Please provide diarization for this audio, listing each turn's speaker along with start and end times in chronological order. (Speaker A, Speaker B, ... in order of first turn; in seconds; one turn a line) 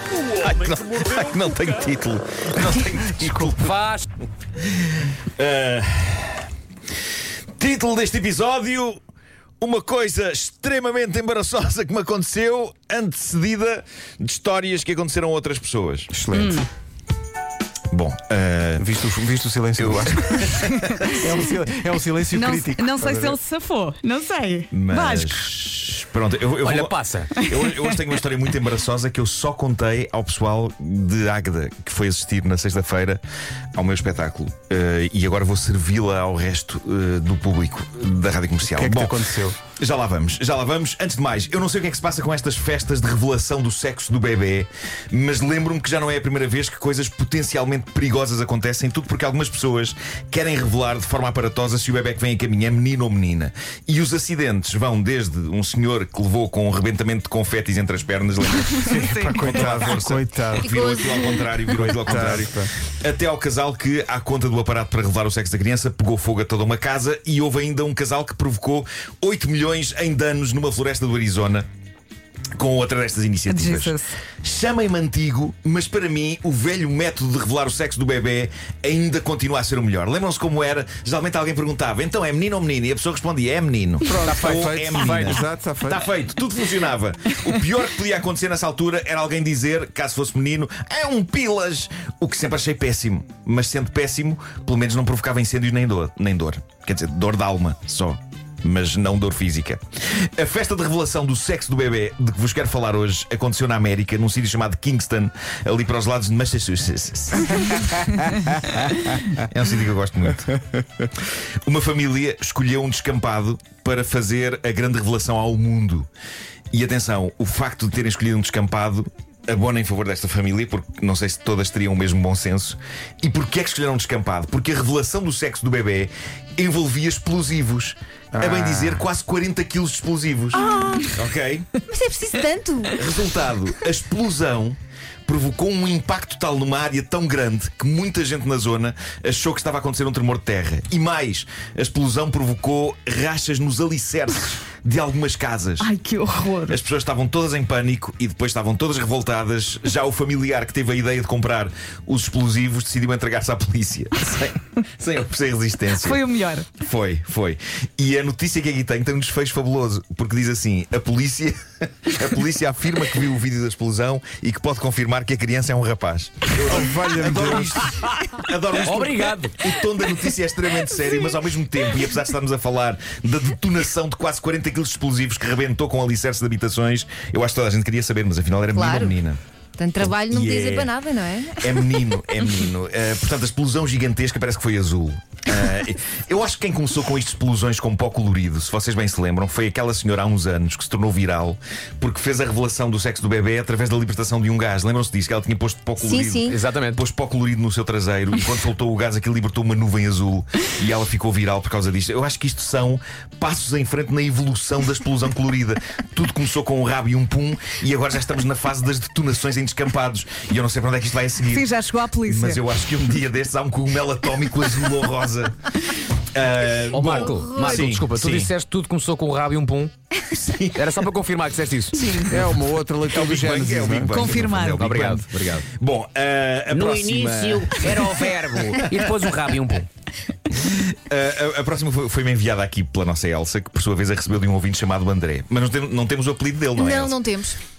Speaker A: 0.3-3.8
Speaker B: 3.7-4.1
Speaker A: 4.8-6.5
Speaker A: 7.6-9.0
Speaker A: 9.6-16.1
Speaker C: 16.1-16.7
Speaker D: 16.3-16.7
Speaker A: 17.9-18.9
Speaker C: 18.8-20.5
Speaker A: 19.8-21.1
Speaker D: 20.9-21.3
Speaker C: 21.1-23.4
Speaker D: 22.3-25.6
Speaker A: 24.7-33.2
Speaker B: 26.6-27.3
Speaker D: 27.4-27.9
Speaker A: 33.8-71.7
Speaker C: 38.6-39.6
Speaker D: 58.8-59.9
Speaker C: 58.8-60.9
Speaker E: 60.6-61.5
Speaker C: 61.8-62.7
Speaker A: 72.6-108.0
Speaker D: 73.5-74.2
Speaker C: 84.0-86.0
Speaker A: 109.3-110.5
Speaker A: 111.2-116.1
Speaker A: 116.7-131.7
Speaker C: 128.3-129.0
Speaker D: 130.6-131.2
Speaker E: 130.6-131.1
Speaker E: 131.9-133.0
Speaker A: 132.9-145.9
Speaker D: 145.8-146.8
Speaker A: 146.7-179.4
Speaker D: 155.9-156.7
Speaker C: 166.6-167.8
Speaker B: 168.8-169.6
Speaker E: 178.7-179.1
Speaker E: 179.8-181.8
Speaker A: 180.0-180.9
Speaker A: 181.6-211.7
Speaker E: 196.0-196.6
Speaker B: 196.5-197.0
Speaker D: 211.5-212.6
Speaker A: 212.2-215.7
Speaker A: 216.3-218.5
Speaker B: 216.9-219.9
Speaker E: 217.3-217.8
Speaker A: 220.3-221.0
Speaker B: 220.8-222.1
Speaker A: 222.0-222.6
Speaker C: 222.2-224.3
Speaker A: 223.1-229.0
Speaker D: 224.1-224.9
Speaker B: 224.6-225.7
Speaker B: 226.7-229.9
Speaker A: 230.5-237.2
Speaker E: 236.8-237.6